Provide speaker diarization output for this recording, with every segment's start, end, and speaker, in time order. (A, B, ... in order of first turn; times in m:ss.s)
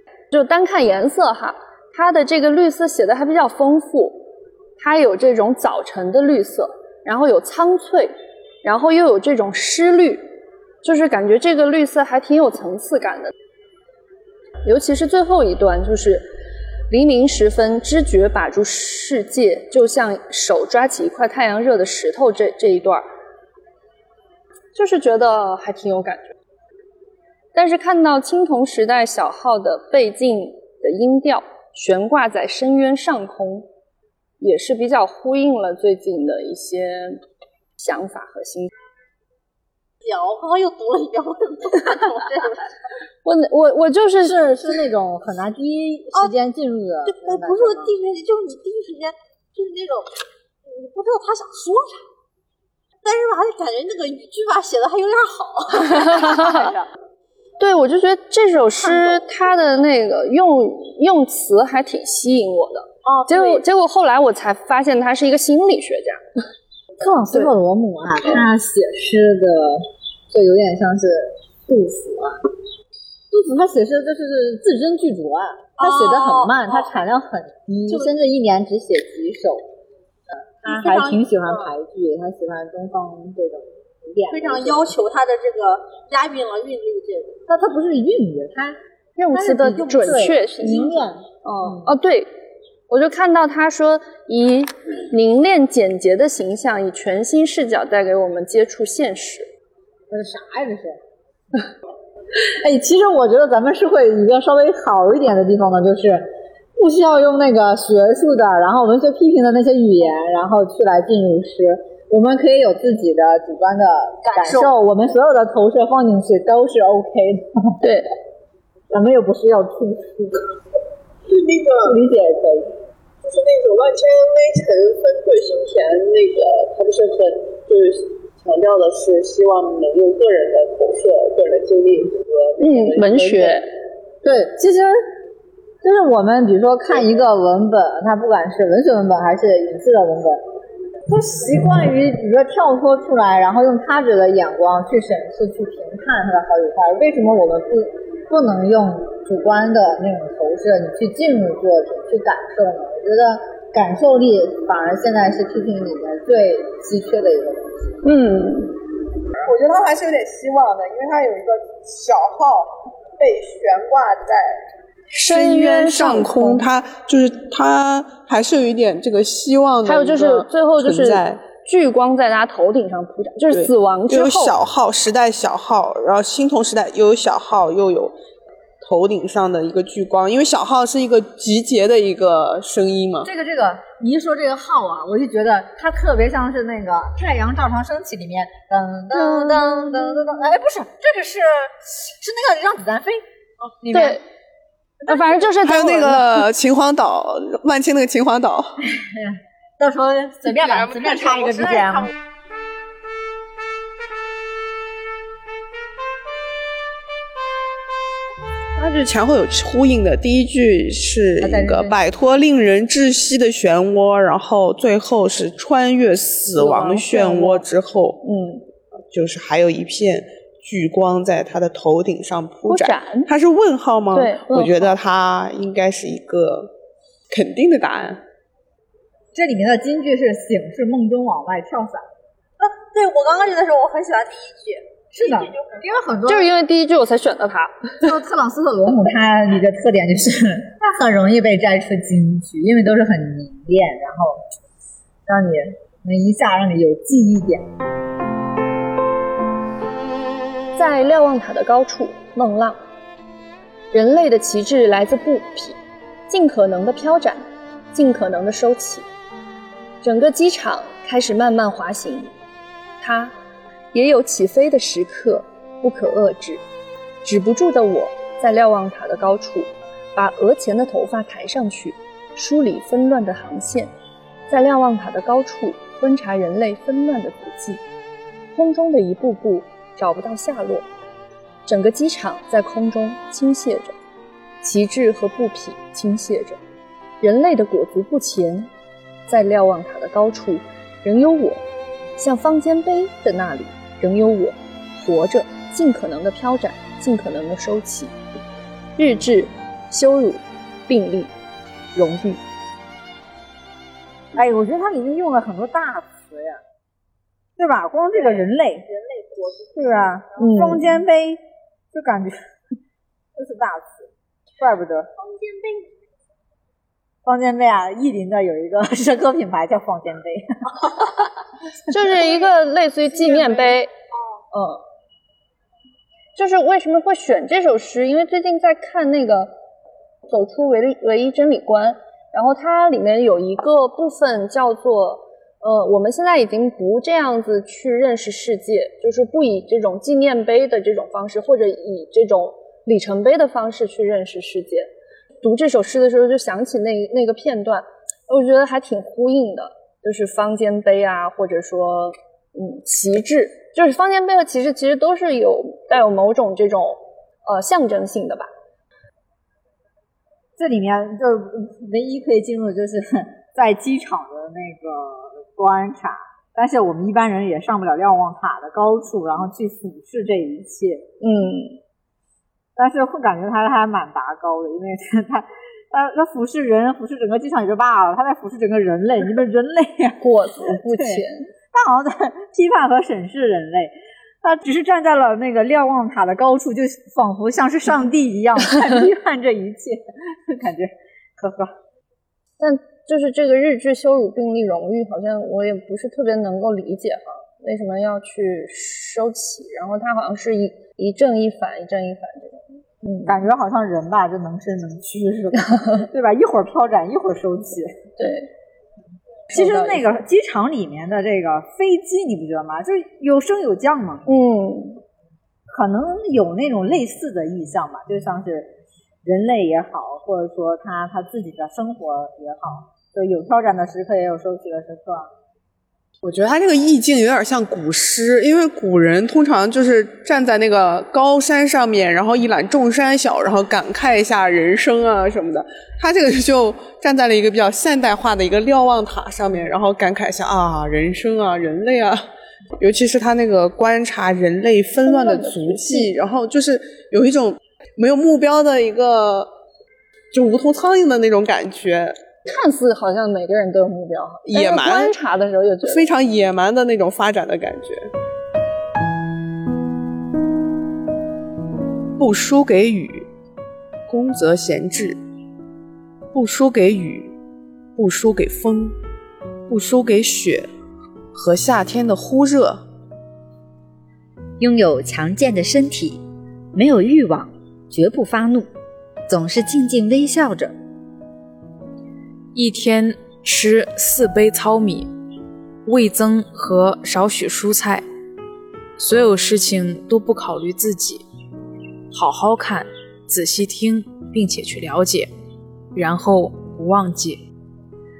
0:00.3-0:10.3 A
0:10.8-0:13.3 A
0:14.6-0:16.3 A
0:16.9-0:23.1 A
0:24.7-0:26.3 A
0:27.5-0:33.7 A
0:34.4-0:37.2 A
0:37.8-0:38.7 A
0:40.0-0:42.7 B
0:43.2-0:44.4 A
0:44.2-0:48.0 B
0:48.1-0:49.1 C
0:51.0-0:51.5 C
0:53.0-0:56.7 B
0:55.9-0:56.7 A
0:57.6-1:06.2 A
1:07.0-1:12.5 B
1:13.3-1:19.6 B
1:20.6-1:25.0 B
1:25.8-1:28.8 B
1:29.2-1:32.3 A
1:29.3-1:31.3 B
1:32.9-1:39.5 A
1:40.1-1:41.0 B
1:42.6-1:57.8 B
1:54.4-1:54.7 A
1:57.8-1:58.1 A
1:58.9-2:00.5 B
2:01.3-2:02.0 D
2:01.8-2:02.8 B
2:03.2-2:13.6 D
2:12.6-2:13.7 A
2:14.2-2:15.1 B
2:15.8-2:20.5 B
2:21.1-2:38.0 B
2:38.0-2:38.8 A
2:39.4-2:44.6 D
2:45.1-2:51.4 D
2:45.2-2:46.7 A
2:49.8-2:54.6 A
2:53.5-2:58.1 D
2:58.8-3:03.3 D
3:03.2-3:13.2 B
3:09.2-3:10.0 A
3:13.8-3:14.2 B
3:13.9-3:14.2 A
3:15.0-3:16.4 A
3:15.6-3:18.9 D
3:18.9-3:22.1 B
3:28.7-3:38.2 D
3:31.4-3:32.0 B
3:36.5-3:37.6 A
3:38.2-3:38.7 A
3:39.1-3:46.7 D
3:42.7-3:43.3 A
3:44.1-3:44.9 A
3:47.3-3:48.2 D
3:49.3-3:52.0 B
3:52.8-3:54.8 C
3:55.1-3:56.5 B
3:56.2-3:58.1 A
3:58.0-4:04.4 B
4:05.3-4:07.7 B
4:10.7-4:12.8 A
4:13.9-4:19.1 A
4:20.0-4:22.3 A
4:23.0-4:23.3 A
4:23.9-4:26.6 A
4:27.2-4:33.9 A
4:34.5-4:37.8 A
4:38.5-4:40.9 A
4:41.6-4:44.0 A
4:44.6-4:46.6 A
4:47.2-4:48.7 A
4:49.3-4:51.6 A
4:52.2-4:58.1 A
4:59.0-5:01.3 A
5:01.9-5:02.4 A
5:04.3-5:06.6 B
5:07.6-5:11.4 B
5:10.4-5:10.9 A
5:11.9-5:12.5 B
5:13.4-5:15.3 B
5:17.2-5:21.1 B
5:21.9-5:23.9 A
5:26.3-5:29.6 A
5:30.2-5:44.9 A
5:45.4-5:58.5 A
6:00.6-6:11.1 B
6:11.2-6:11.8 A
6:12.8-6:31.7 B
6:20.2-6:21.5 A
6:32.6-6:43.3 A
6:43.2-6:48.1 B
6:45.7-6:46.0 A
6:48.2-6:48.5 A
6:49.5-6:54.2 B
6:49.5-6:50.0 A
6:54.2-6:55.0 A
6:55.7-7:05.3 B
7:06.2-7:22.3 D
7:22.8-7:29.5 D
7:25.0-7:26.1 A
7:30.3-7:32.2 D
7:32.4-7:36.1 A
7:34.5-7:35.2 D
7:35.8-7:38.1 D
7:42.2-7:43.3 D
7:44.1-7:45.2 D
7:46.3-7:47.3 D
7:48.0-7:49.0 D
7:49.7-7:50.7 D
7:51.3-7:52.8 D
7:54.6-7:56.2 E
7:56.7-7:58.6 E
7:59.3-8:00.7 E
8:02.5-8:05.1 C
8:05.8-8:08.0 C
8:09.0-8:11.2 C
8:12.1-8:15.3 C
8:15.9-8:17.4 C